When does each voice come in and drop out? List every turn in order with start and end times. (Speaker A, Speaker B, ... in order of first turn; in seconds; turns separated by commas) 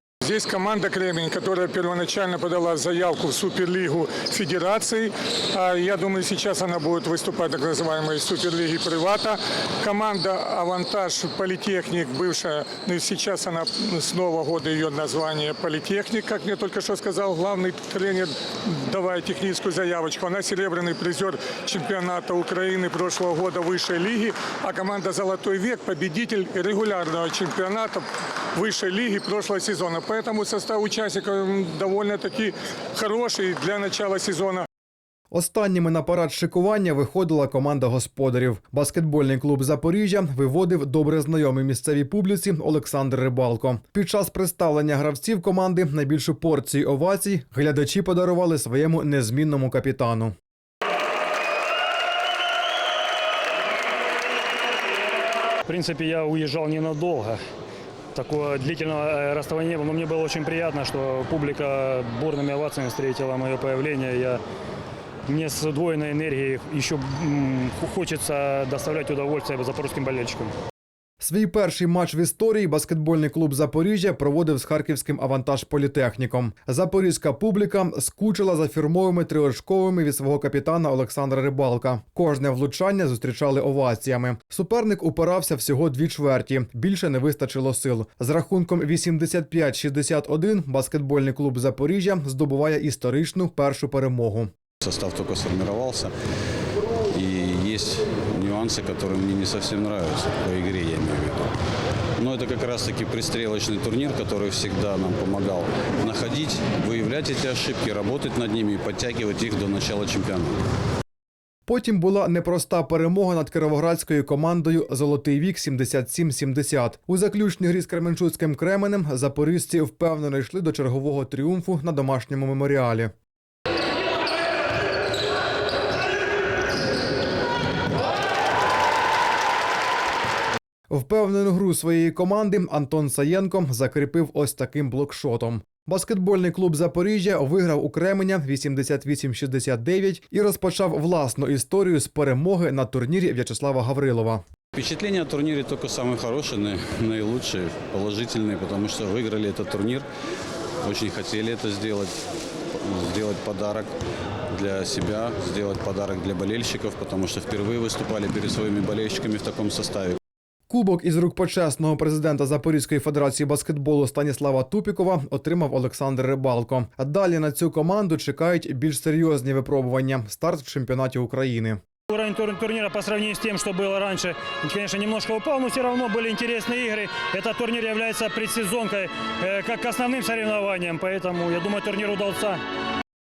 Speaker A: 0.2-34.7, Speaker B: 35.3-50.3, Speaker C: 55.6-57.4, Speaker C: 58.1-64.4, Speaker C: 65.3-70.5, Speaker B: 71.2-94.5, Speaker D: 94.8-96.1, Speaker D: 97.0-101.5, Speaker D: 102.2-110.6, Speaker B: 111.7-123.1, Speaker B: 130.9-144.4, Speaker D: 144.7-150.1, Speaker D: 150.8-153.9, Speaker D: 154.5-160.2, Speaker B: 160.7-171.8, Speaker C: 172.1-182.6